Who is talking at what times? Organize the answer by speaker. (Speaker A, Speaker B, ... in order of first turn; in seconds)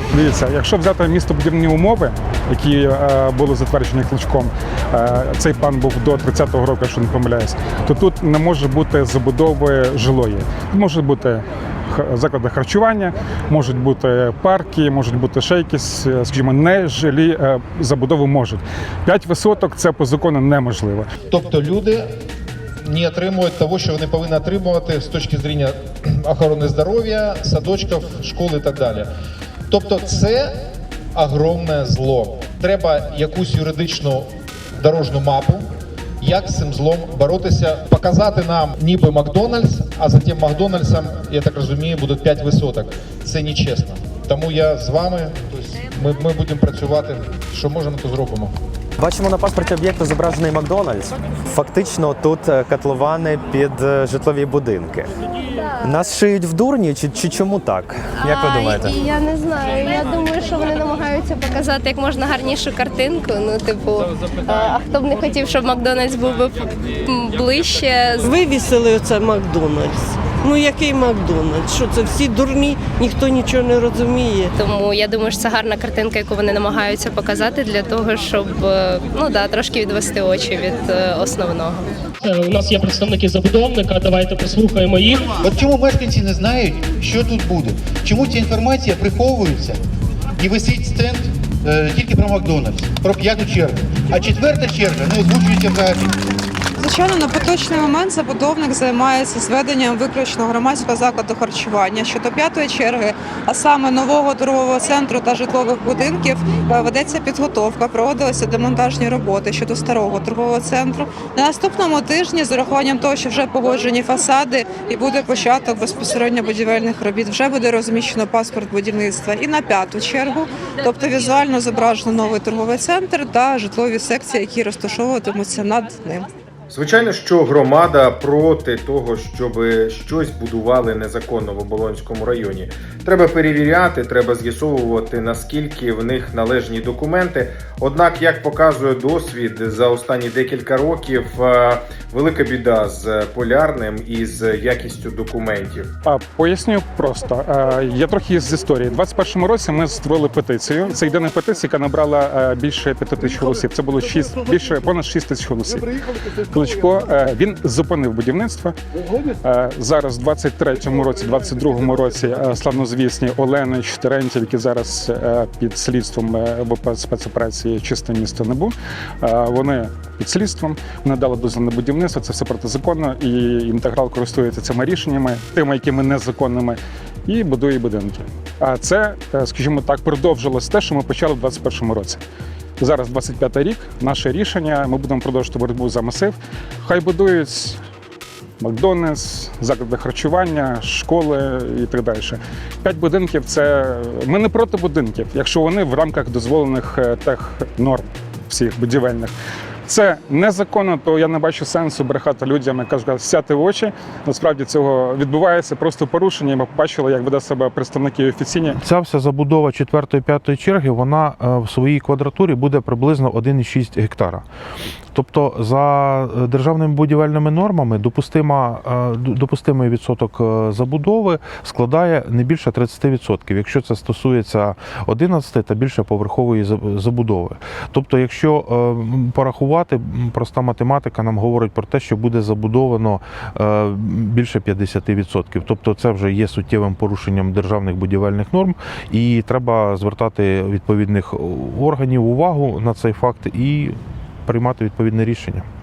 Speaker A: 0.1-21.1, 146.1-155.9, 156.5-158.8, 159.4-182.2, 182.8-187.8, 188.6-199.3, 199.9-208.8
Speaker B: 21.3-22.1, 22.8-29.1, 29.7-30.5, 31.1-35.7, 36.2-48.5
Speaker C: 49.0-55.1, 55.8-59.0
Speaker D: 58.5-68.2, 74.6-81.9
Speaker E: 68.2-74.6
Speaker F: 82.2-85.3
Speaker G: 85.4-89.8, 90.4-96.2
Speaker H: 96.8-126.3
Speaker I: 126.7-145.9
Speaker J: 208.8-214.4, 215.1-243.9, 244.4-245.7